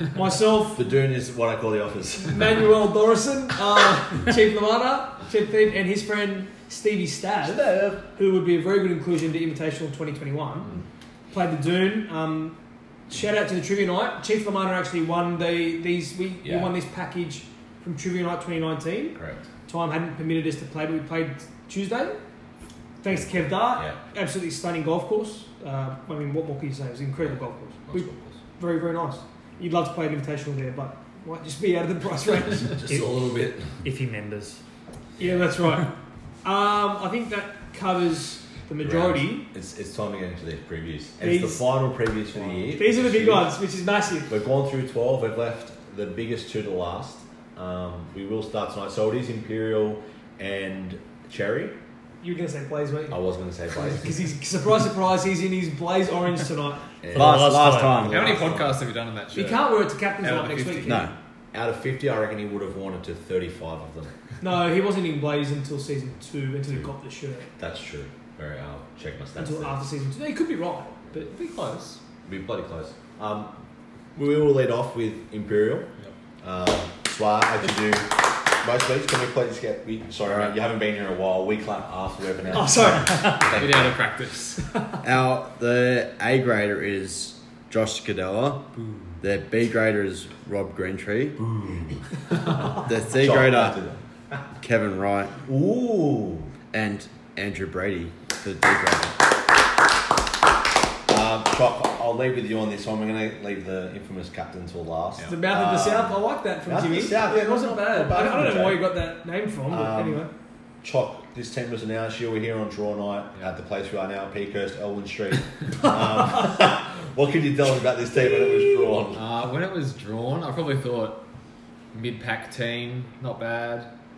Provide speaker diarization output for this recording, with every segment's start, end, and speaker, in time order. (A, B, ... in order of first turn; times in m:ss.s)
0:00.1-0:00.8 A
0:00.7-0:02.7 B
0:02.2-0:10.8 A
0:07.4-0:08.0 B
0:11.3-0:12.6 A
0:13.1-0:22.2 A
0:16.4-0:16.7 B
0:19.1-0:19.4 B
0:23.0-0:32.8 A
0:23.1-0:24.0 B
0:27.9-0:28.4 B
0:32.6-0:33.8 B
0:32.9-0:34.6 C
0:35.2-0:39.4 A
0:38.8-0:43.5 B
0:41.2-0:41.6 A
0:42.7-0:44.3 A
0:44.3-0:51.8 B
0:52.2-0:53.2 A
0:53.1-0:54.2 B
0:53.7-0:57.0 A
0:57.0-0:58.7 B
0:57.1-0:58.5 D
0:57.1-0:58.1 C
0:58.0-1:01.0 E
0:59.3-1:01.0 A
1:00.8-1:01.1 D
1:01.5-1:04.1 B
1:04.4-1:07.5 A
1:07.6-1:09.8 B
1:09.4-1:11.3 A
1:11.1-1:12.0 E
1:12.2-1:13.5 B
1:14.1-1:15.9 B
1:16.4-1:23.9 B
1:22.5-1:23.5 A
1:23.4-1:24.6 E
1:25.0-1:28.7 D
1:29.2-1:31.4 D
1:32.8-1:33.8 D
1:33.1-1:34.4 B
1:34.6-1:35.4 D
1:35.4-1:36.5 B
1:36.7-1:39.1 D
1:41.1-1:48.9 B
1:45.3-1:50.3 A
1:49.7-1:50.2 B
1:50.8-1:59.2 B
1:58.6-1:58.9 A
1:59.1-2:01.2 E
2:01.9-2:03.9 E